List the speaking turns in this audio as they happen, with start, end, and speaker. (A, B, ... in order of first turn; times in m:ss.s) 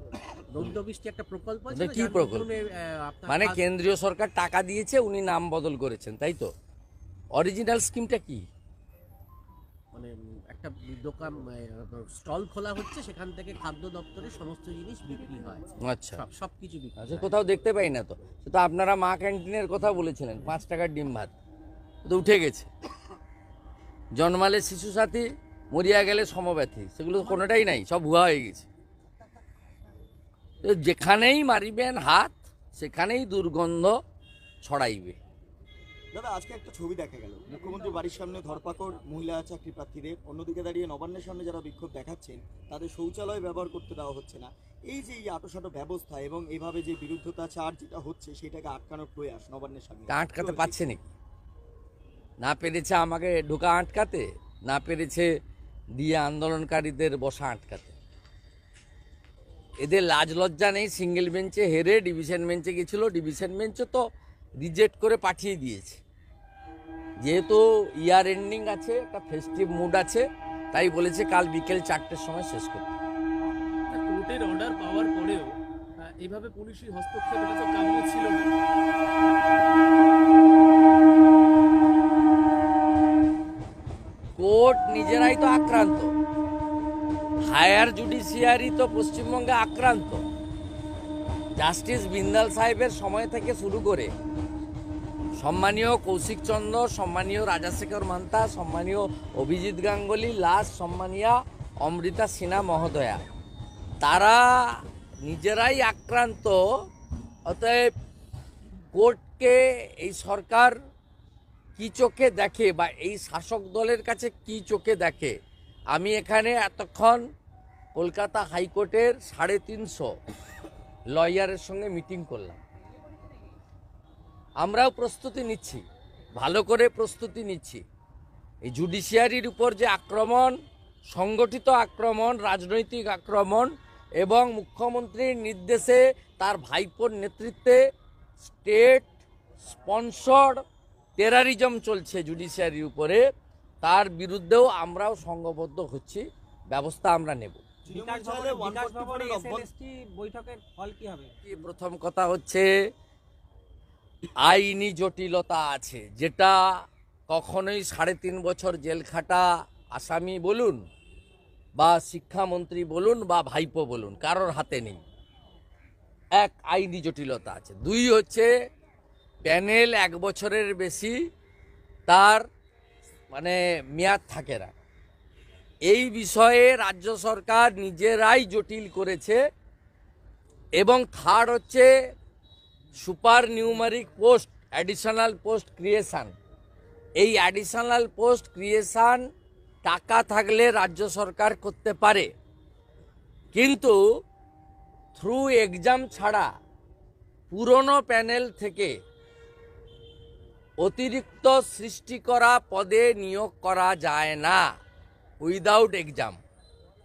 0:00.5-0:03.6 A
0:01.7-0:02.5 B
0:03.3-0:06.5 B
0:07.3-0:08.4 B
0:09.9-0:17.3 A
0:15.8-0:16.2 B
0:17.0-0:21.3 B
0:22.0-0:22.7 B
0:24.2-0:28.7 B
0:30.6-0:33.9 B
0:34.6-0:35.2 B
0:36.1-0:50.9 C
0:50.1-0:51.1 B
0:52.4-0:55.3 B
0:56.0-0:57.9 B
0:59.8-1:04.0 B
1:04.6-1:06.0 B
1:07.2-1:12.9 B
1:13.9-1:18.5 D
1:24.4-1:26.1 B
1:27.5-1:30.2 B
1:31.6-1:34.1 B
1:35.4-1:43.2 B
1:44.0-1:44.5 B
1:45.2-1:46.6 B
1:47.5-1:47.9 B
1:48.9-1:50.7 B
1:51.8-1:55.3 B
1:55.9-1:57.2 B
1:57.9-2:00.1 B
2:01.1-2:02.6 B
2:04.6-2:05.8 B
2:06.4-2:07.8 B
2:08.6-2:10.5 B
2:11.1-2:17.8 B
2:18.4-2:19.1 B
2:19.6-2:20.6 B
2:21.2-2:23.2 B
2:23.8-2:27.6 B
2:27.8-2:29.7 C
2:27.9-2:31.3 E
2:31.4-2:32.7 B
2:34.4-2:36.6 B
2:37.3-2:40.8 B
2:41.8-2:45.0 B
2:46.4-2:48.5 B
2:49.4-2:51.1 B
2:52.1-2:52.4 B
2:53.3-2:54.7 B
2:55.9-2:59.4 B
3:00.8-3:01.9 B
3:03.0-3:06.3 B
3:07.2-3:09.2 B
3:09.8-3:12.3 B
3:13.5-3:14.0 B
3:15.2-3:16.5 B
3:17.5-3:18.9 B
3:20.8-3:24.6 B
3:25.4-3:26.4 B